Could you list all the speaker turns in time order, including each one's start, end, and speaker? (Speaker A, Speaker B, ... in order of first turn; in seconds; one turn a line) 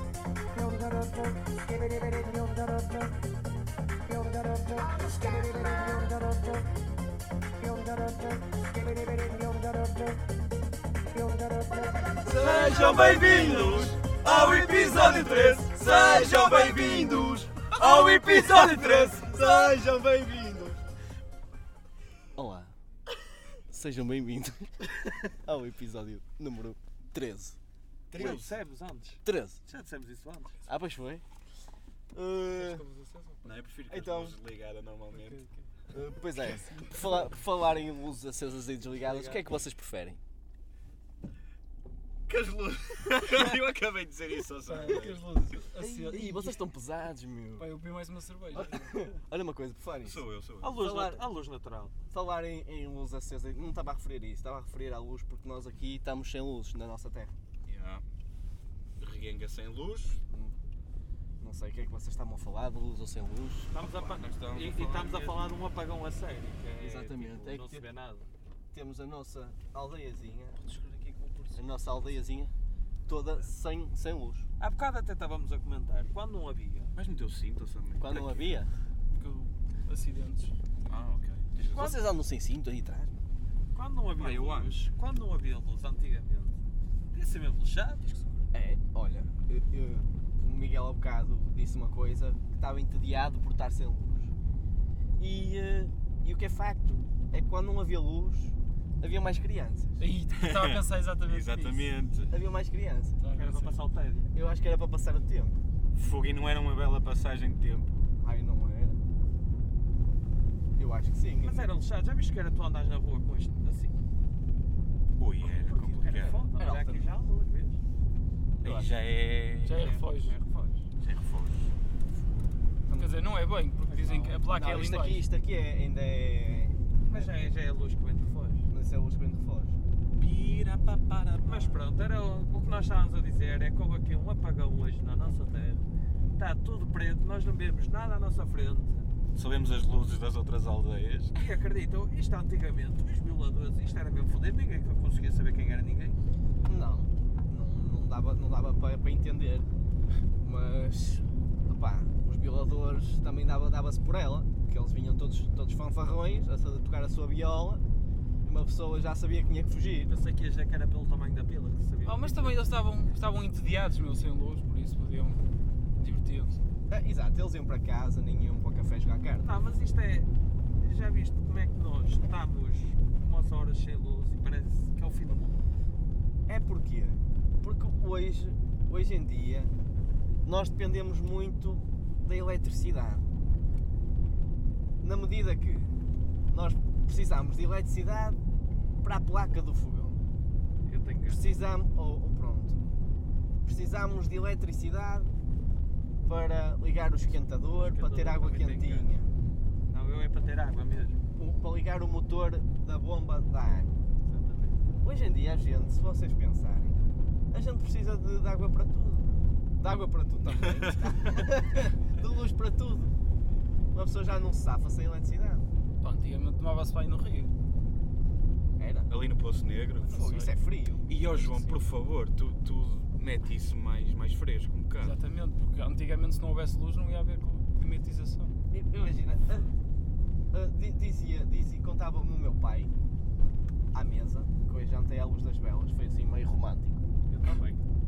Speaker A: 0.5-3.1
Speaker A: 4.1-6.6
Speaker A: 7.6-10.2
Speaker A: 11.0-13.0
Speaker B: 12.2-20.8
Speaker C: 12.6-14.0
Speaker C: 14.9-15.5
Speaker D: 17.8-19.1
Speaker B: 22.3-22.8
Speaker B: 23.7-27.6
Speaker C: 28.1-28.6
Speaker D: 28.1-30.6
Speaker B: 29.2-29.6
Speaker B: 30.6-31.2
Speaker B: 32.1-32.8
Speaker E: 32.5-33.5
Speaker C: 33.4-35.5
Speaker B: 33.9-34.4
Speaker E: 35.1-35.7
Speaker B: 35.9-40.2
Speaker E: 36.5-37.2
Speaker D: 38.9-39.4
Speaker C: 42.3-45.3
Speaker E: 44.6-46.6
Speaker B: 44.8-45.1
Speaker B: 45.8-47.7
Speaker E: 47.6-49.0
Speaker B: 48.5-50.2
Speaker C: 50.0-50.8
Speaker D: 50.6-51.9
Speaker B: 50.8-51.3
Speaker B: 52.1-57.3
Speaker C: 57.6-58.0
Speaker C: 59.0-60.2
Speaker B: 61.4-63.7
Speaker D: 63.7-68.3
Speaker C: 63.8-65.5
Speaker B: 66.8-67.8
Speaker B: 68.7-70.8
Speaker E: 71.0-71.4
Speaker B: 71.5-72.5
Speaker B: 73.0-74.5
Speaker D: 74.6-76.9
Speaker C: 76.9-78.6
Speaker B: 78.0-78.7
Speaker E: 79.1-80.5
Speaker C: 80.8-82.0
Speaker B: 81.6-83.1
Speaker D: 83.7-88.4
Speaker C: 84.2-84.8
Speaker B: 88.5-94.3
Speaker B: 95.2-100.0
Speaker E: 100.0-101.9
Speaker C: 100.4-102.3
Speaker B: 102.3-103.2
Speaker E: 103.2-103.8
Speaker D: 103.3-104.3
Speaker B: 104.3-105.6
Speaker C: 105.9-108.1
Speaker B: 108.2-109.0
Speaker B: 110.8-111.7
Speaker D: 111.4-113.9
Speaker C: 115.2-116.4
Speaker B: 115.5-117.0
Speaker D: 115.7-117.8
Speaker B: 118.6-118.9
Speaker C: 118.6-119.8
Speaker E: 119.6-120.3
Speaker D: 119.7-120.9
Speaker C: 121.0-121.7
Speaker B: 122.9-123.1
Speaker E: 123.0-125.2
Speaker D: 123.9-124.4
Speaker B: 124.5-127.4
Speaker D: 127.0-128.7
Speaker B: 128.7-129.8
Speaker C: 130.2-131.8
Speaker D: 131.4-135.8
Speaker D: 136.3-139.1
Speaker C: 139.3-141.4
Speaker D: 141.3-146.2
Speaker B: 146.6-149.7
Speaker B: 150.4-157.8
Speaker B: 158.4-160.1
Speaker D: 160.1-162.6
Speaker E: 162.0-166.6
Speaker B: 166.9-169.5
Speaker D: 169.4-175.6
Speaker B: 176.5-179.7
Speaker B: 180.4-183.3
Speaker B: 185.0-186.0
Speaker B: 186.5-188.4
Speaker B: 189.0-190.2
Speaker D: 190.8-191.5
Speaker B: 191.3-193.0
Speaker B: 193.6-195.3
Speaker B: 196.2-199.3
Speaker D: 197.7-199.1
Speaker D: 199.9-201.2
Speaker B: 201.3-204.0
Speaker D: 204.2-204.8
Speaker B: 205.0-213.1
Speaker B: 213.9-215.7
Speaker E: 216.0-217.5
Speaker B: 218.8-219.1
Speaker C: 219.1-220.2
Speaker E: 220.0-220.6
Speaker B: 220.0-221.1
Speaker C: 221.1-225.2
Speaker E: 221.2-221.9
Speaker E: 225.0-228.6
Speaker B: 228.7-229.7
Speaker B: 230.5-232.9
Speaker B: 233.9-237.1
Speaker D: 237.3-237.8